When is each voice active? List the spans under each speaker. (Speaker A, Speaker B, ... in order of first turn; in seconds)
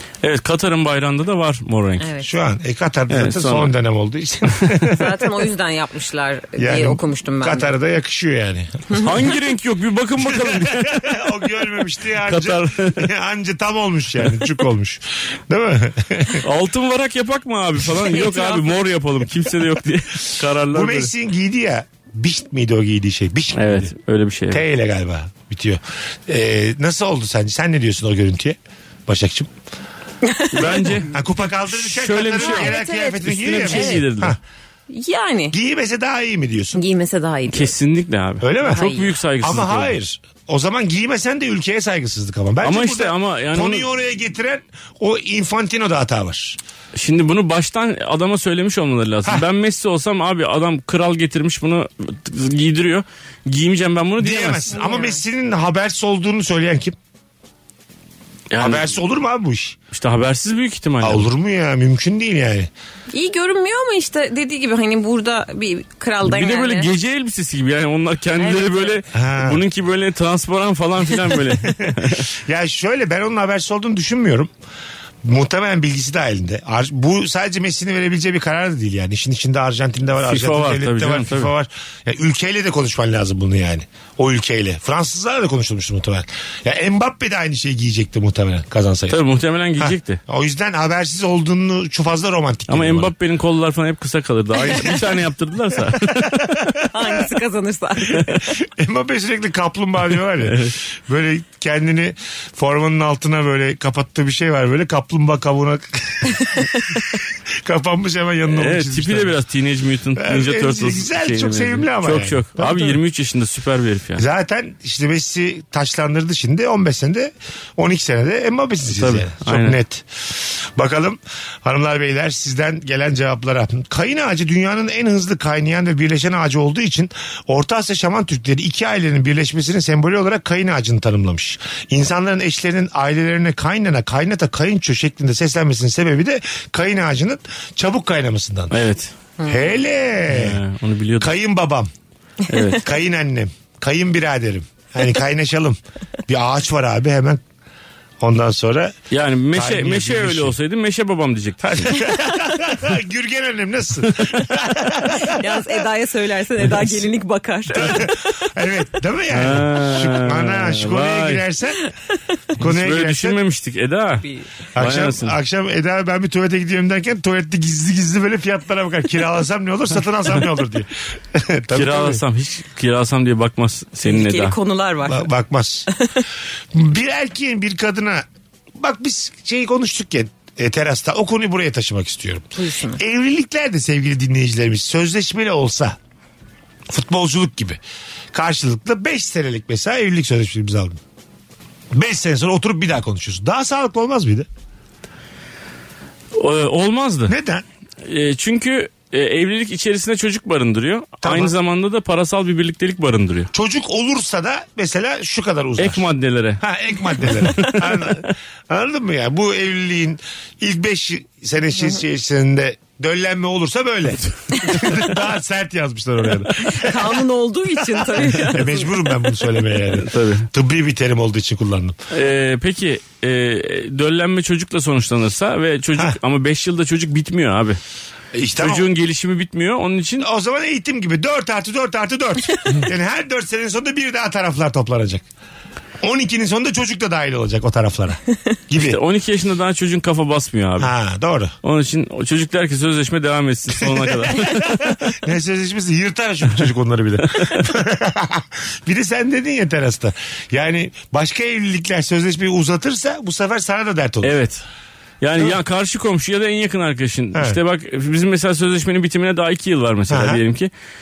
Speaker A: 0.2-2.1, 3.1-3.7, 9.0-11.2, 12.2-13.1, 16.4-21.1, 23.6-24.6, 30.5-31.1, 31.7-34.4, 37.5-40.0, 42.6-43.9, 47.0-54.7, 58.5-58.9, 59.9-61.3, 66.2-72.3, 80.2-81.5, 89.1-90.2, 92.7-96.5, 100.4-100.8, 108.5-114.2, 118.9-119.8, 138.7-139.1, 140.3-141.3, 142.5-142.9, 149.1-152.0, 154.1-154.4, 159.3-161.4, 162.6-164.2, 164.8-165.4, 171.7-174.6, 196.3-197.3, 198.0-203.5, 205.8-206.6, 207.2-208.3, 220.0-220.5, 222.1-227.8, 228.6-230.3, 238.8-240.9, 241.6-245.0, 254.2-254.6, 255.2-260.7
Speaker B: 2.0-2.3, 4.9-7.7, 18.1-18.8, 30.2-30.9, 32.4-34.0, 34.9-35.5, 36.8-37.7, 38.6-39.1, 54.7-55.2, 63.1-66.9, 68.4-69.0, 96.9-98.4, 155.2-158.1, 164.2-164.5, 174.1-175.3, 182.6-183.0, 216.6-219.0
Speaker C: 2.2-5.2, 6.6-9.1, 10.2-16.4, 20.7-23.9, 24.5-29.5, 31.1-34.4, 35.5-36.8, 38.4-46.6, 54.2-57.0, 58.6-59.8, 61.0-62.7, 69.1-69.6, 71.7-74.5, 75.2-89.2, 89.8-93.1, 96.2-97.2, 98.3-106.7, 107.6-109.4, 110.2-113.0, 114.2-138.8, 139.5-140.6, 141.2-141.9, 142.8-147.4, 148.2-149.0, 149.5-150.6, 151.6-155.7, 157.7-161.8, 162.6-163.4, 164.8-172.2, 175.1-175.9, 176.7-178.2, 178.8-186.0, 186.9-187.8, 188.3-191.0, 191.9-194.5, 197.3-197.7, 201.2-201.5, 203.5-206.1, 206.6-217.2, 217.9-222.0, 228.3-228.9, 230.2-235.2, 236.0-239.0, 240.8-241.5, 243.8-254.4, 257.3-257.6, 260.1-260.4